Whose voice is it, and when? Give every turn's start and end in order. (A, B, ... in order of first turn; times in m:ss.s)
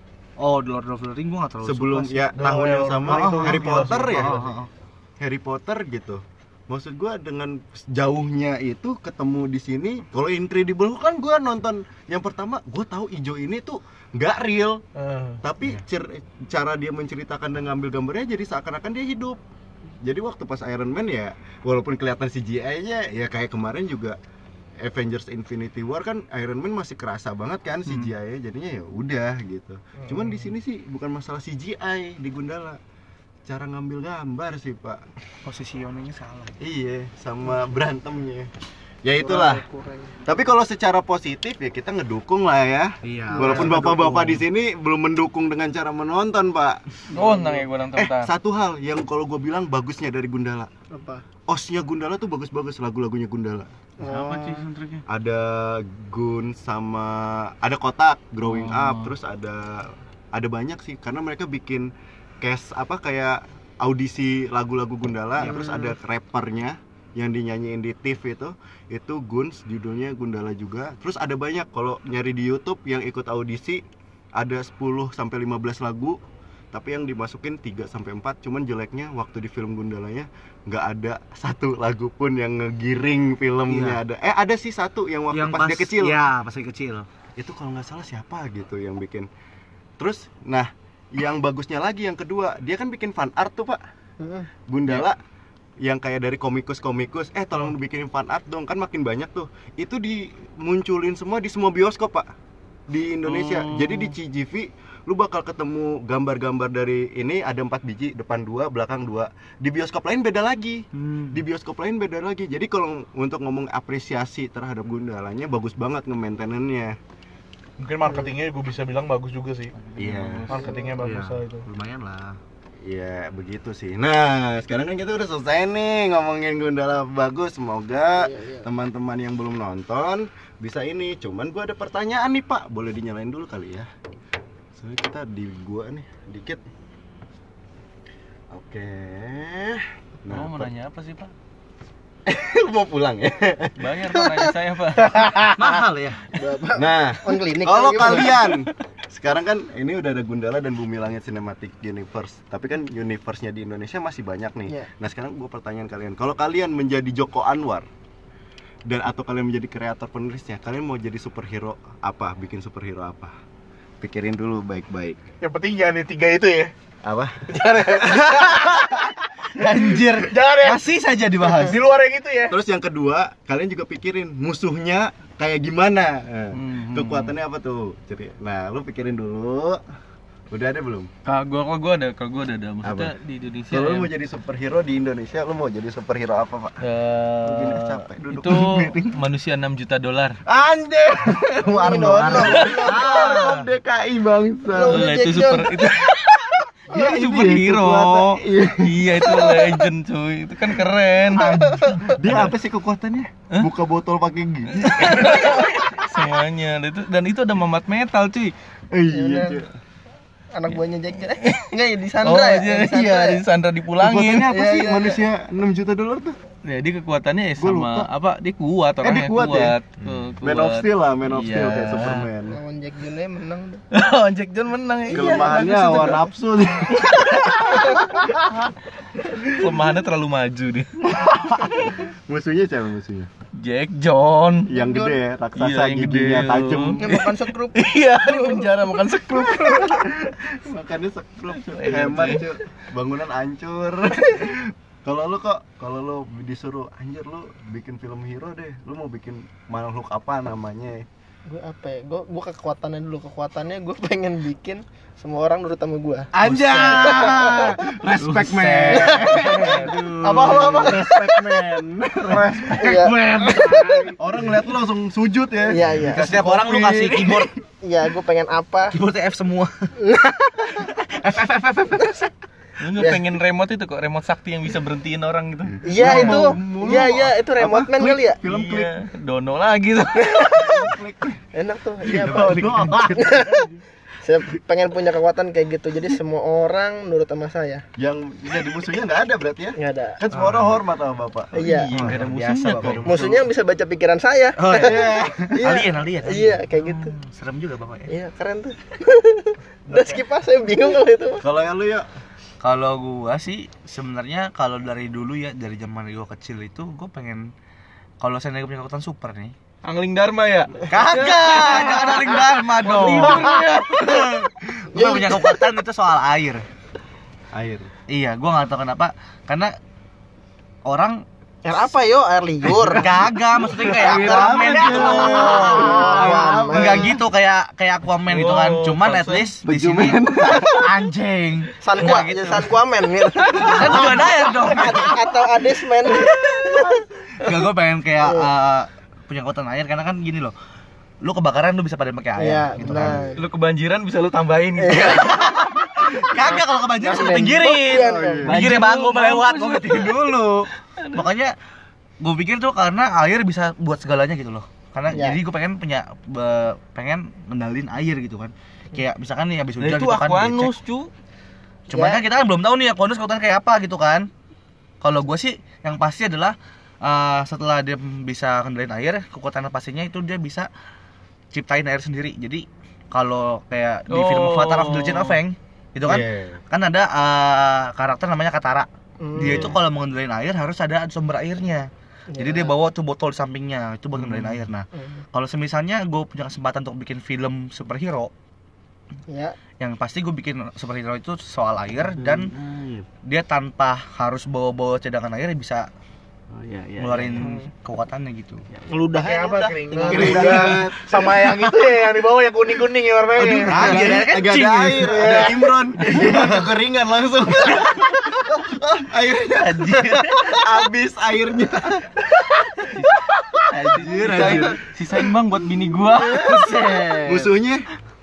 0:00.4-0:02.3 A
0:01.6-0:04.4 B
0:02.4-0:04.5 C
0:03.0-0:04.7 A
0:05.2-0:14.8 B
0:15.0-0:15.4 C
0:15.4-0:19.4 B
0:20.0-0:24.2 B
0:24.8-0:32.8 B
0:30.0-0:30.4 C
0:33.4-0:35.0 B
0:35.4-0:36.6 A
0:36.6-0:38.5 B
0:39.0-0:39.6 B
0:39.2-0:40.2 D
0:40.2-0:47.0 B
0:43.0-0:44.4 A
0:43.3-0:43.8 D
0:47.1-0:48.3 E
0:47.1-0:47.6 D
0:48.0-0:50.7 B
0:50.9-0:51.2 D
0:51.5-0:53.7 B
0:54.0-0:54.7 D
0:54.0-0:55.0 E
0:55.1-1:01.9 B
0:58.4-0:59.1 E
1:02.4-1:13.8 B
1:05.4-1:05.9 D
1:14.4-1:16.2 B
1:16.7-1:26.2 B
1:23.7-1:24.0 A
1:25.3-1:27.1 A
1:27.4-1:29.3 B
1:30.0-1:33.8 B
1:34.2-1:34.5 D
1:34.7-1:35.2 B
1:35.8-1:42.3 B
1:42.9-1:57.0 B
1:43.3-1:44.1 E
1:51.0-1:51.3 A
1:57.8-1:59.7 C
1:59.9-2:00.5 E
2:00.0-2:00.7 B
2:00.0-2:00.4 A
2:00.5-2:01.7 C
2:00.5-2:00.8 D
2:01.0-2:02.4 A
2:02.8-2:13.9 B
2:08.2-2:08.6 D
2:14.8-2:16.6 B
2:18.5-2:20.7 B
2:20.3-2:21.3 E
2:22.3-2:23.9 B
2:23.8-2:25.5 E
2:25.0-2:25.8 C
2:25.6-2:26.3 A
2:26.3-2:28.4 D
2:26.7-2:37.9 B
2:38.9-2:43.4 B
2:44.0-2:45.2 B
2:45.4-2:46.7 C
2:47.0-2:49.1 B
2:47.5-2:49.1 C
2:49.6-2:51.8 A
2:49.6-2:50.8 C
2:51.4-2:52.6 C
2:52.5-2:59.8 B
2:56.5-2:57.4 E
3:00.5-3:01.1 B
3:01.2-3:04.1 E
3:02.8-3:03.1 B
3:03.7-3:06.8 B
3:06.8-3:10.4 E
3:07.4-3:09.2 B
3:10.5-3:15.1 B
3:11.6-3:13.5 D
3:12.3-3:13.7 E
3:14.7-3:15.8 D
3:14.9-3:22.5 E
3:16.9-3:19.4 B
3:21.4-3:22.1 D
3:22.0-3:25.6 B
3:24.8-3:28.5 E
3:28.9-3:29.7 B
3:29.1-3:29.6 D
3:30.5-3:33.4 D
3:30.7-3:34.5 E
3:34.0-3:36.4 B
3:34.5-3:35.2 D
3:36.6-3:42.3 E
3:37.6-3:38.1 B
3:39.0-3:42.6 B
3:42.5-3:43.8 D
3:43.9-3:46.2 E
3:45.1-3:46.2 D
3:45.1-3:48.1 B
3:47.3-3:48.0 E
3:49.3-3:49.7 B
3:49.4-3:51.8 E
3:51.1-3:53.3 B
3:53.6-3:54.7 E
3:54.7-3:57.1 B
3:54.8-3:55.2 D
3:55.6-4:00.0 E
3:57.0-3:58.6 D
3:59.4-4:11.1 B
4:01.6-4:02.4 E
4:11.5-4:16.3 D
4:16.3-4:23.1 B
4:16.4-4:17.7 A
4:17.0-4:17.7 D
4:18.3-4:20.9 A
4:18.9-4:21.6 D
4:19.7-4:20.8 E
4:22.4-4:24.1 A
4:22.7-4:24.1 D
4:24.1-4:27.5 B
4:25.7-4:26.2 D
4:26.1-4:27.5 A
4:27.8-4:29.0 D
4:28.9-4:29.9 A
4:30.0-4:30.9 D
4:30.7-4:32.3 A
4:32.8-4:36.4 E
4:35.8-4:38.4 D
4:35.9-4:38.9 B
4:38.5-4:41.0 E
4:40.5-4:41.4 B
4:41.5-4:43.7 D
4:42.0-4:43.7 B
4:44.2-4:47.8 D
4:48.0-4:53.1 B
4:49.8-4:50.2 D
4:51.5-4:51.9 D
4:51.6-4:53.4 A
4:52.0-4:53.3 E
4:53.0-4:55.0 D
4:54.6-4:58.1 A
4:54.7-4:55.6 B
4:55.5-4:57.1 D
4:58.1-5:01.4 D
5:01.4-5:02.1 B
5:02.6-5:07.5 A
5:08.2-5:09.5 A
5:09.8-5:14.3 E
5:10.9-5:16.6 A
5:13.2-5:13.8 D
5:14.9-5:15.7 D
5:17.5-5:17.9 B
5:18.1-5:19.7 A
5:20.9-5:21.2 A
5:21.6-5:23.1 D
5:22.9-5:32.6 A
5:23.8-5:26.4 E
5:23.8-5:27.2 B
5:24.9-5:27.2 D
5:28.3-5:29.5 E
5:29.7-5:30.9 B
5:31.8-5:37.5 D
5:32.0-5:32.7 E
5:33.4-5:34.9 E
5:33.6-5:35.4 A
5:36.1-5:40.5 A
5:38.2-5:38.5 D
5:41.2-5:43.4 A
5:42.4-5:43.4 D
5:42.8-5:43.3 B
5:43.4-5:45.3 E
5:44.8-5:45.5 D
5:44.9-5:51.6 A
5:46.4-5:48.5 D
5:47.9-5:48.8 B
5:48.4-5:50.4 E
5:51.0-5:51.2 E
5:52.2-6:00.7 A
5:55.1-5:55.4 D
5:59.8-6:01.1 E
6:01.9-6:04.3 A
6:01.9-6:02.2 D
6:05.0-6:10.7 A
6:11.5-6:28.3 A
6:14.1-6:15.4 E
6:16.1-6:16.6 B
6:19.2-6:19.8 D
6:19.4-6:19.8 B
6:22.3-6:22.7 D
6:24.2-6:24.7 E
6:29.3-6:29.6 D
6:29.8-6:32.5 A
6:32.2-6:33.0 E
6:33.2-6:35.9 A
6:36.5-6:37.4 B
6:36.8-6:37.2 E
6:37.0-6:38.6 A
6:38.9-6:44.0 C
6:39.0-6:40.8 D
6:40.0-6:41.6 B
6:43.4-6:46.6 A
6:43.5-6:52.2 B
6:49.8-6:50.4 A
6:49.9-6:50.1 E
6:52.9-6:56.8 E
6:53.9-6:54.8 B
6:56.2-6:57.5 D
6:57.2-6:57.8 B